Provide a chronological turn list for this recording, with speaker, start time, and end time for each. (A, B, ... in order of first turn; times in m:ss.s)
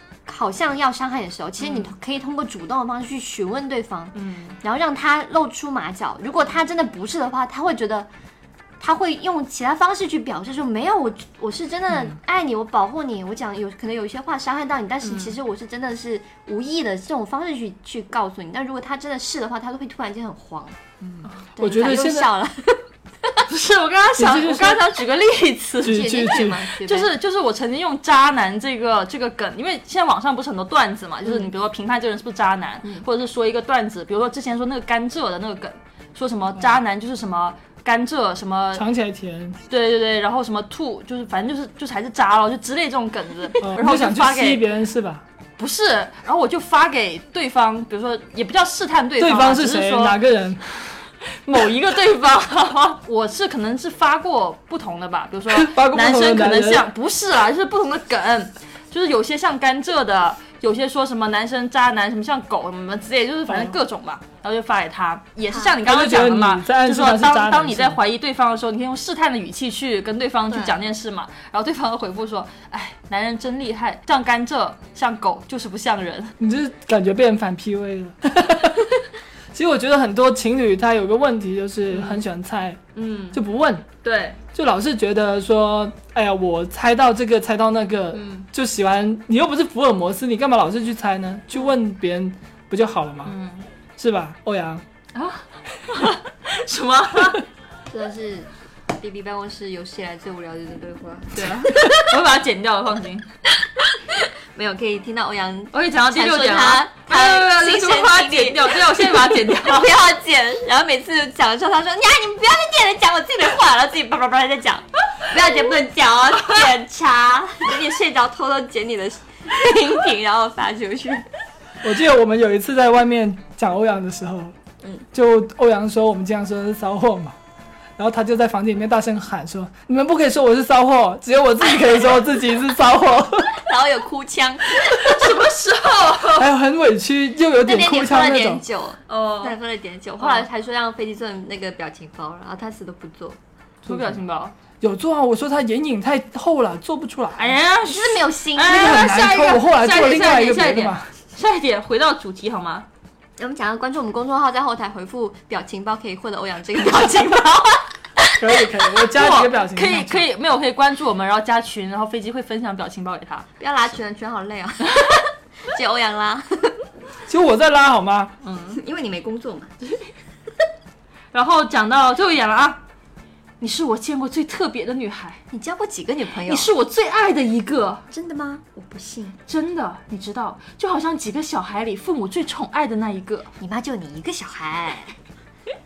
0:00.2-0:08.1 A
0:01.6-0:01.9 B
0:04.1-0:04.6 B
0:08.8-0:20.8 A
0:15.0-0:15.4 B
0:21.0-0:22.3 C
0:21.6-0:23.4 A
0:23.5-0:26.2 B
0:24.2-0:24.9 C
0:25.8-0:26.7 C
0:25.8-0:27.1 A
0:26.8-0:38.8 B
0:38.7-0:39.6 C
0:39.7-0:44.6 B
0:43.6-0:45.2 C
0:45.6-0:50.2 B
0:49.2-0:50.8 C
0:51.4-1:16.3 B
0:55.5-0:56.9 C
1:03.5-1:03.8 C
1:05.5-1:05.8 A
1:05.8-1:08.0 C
1:10.5-1:10.8 A
1:16.4-1:19.0 C
1:19.5-1:22.8 C
1:21.9-1:22.2 B
1:22.9-1:23.4 B
1:23.3-1:23.9 C
1:24.0-1:24.4 B
1:24.5-1:33.4 C
1:28.1-1:28.4 B
1:33.2-1:33.7 B
1:34.0-1:34.8 C
1:35.1-1:37.4 B
1:37.9-1:41.9 A
1:41.3-1:43.3 B
1:44.5-2:01.2 A
1:45.7-1:49.9 B
2:01.8-2:04.5 C
2:05.1-2:07.4 C
2:08.0-2:13.6 C
2:13.5-2:15.2 A
2:14.8-2:16.5 B
2:16.4-2:18.6 C
2:17.6-2:23.4 A
2:19.1-2:19.6 B
2:20.2-2:20.4 B
2:23.8-2:24.5 B
2:23.9-2:24.2 C
2:24.8-2:27.6 C
2:27.4-2:32.8 B
2:27.8-2:29.6 A
2:28.6-2:31.1 C
2:33.4-2:37.8 A
2:37.0-2:37.3 B
2:38.4-2:40.2 C
2:39.1-2:43.5 B
2:43.6-2:45.2 A
2:45.7-2:46.8 A
2:47.3-2:48.3 C
2:48.4-2:48.8 B
2:48.7-2:49.7 A
2:51.3-2:52.8 B
2:53.6-2:55.4 B
2:55.5-2:56.7 A
2:56.4-2:58.0 B
2:58.1-2:59.4 A
2:59.5-3:03.5 B
3:03.6-3:05.2 A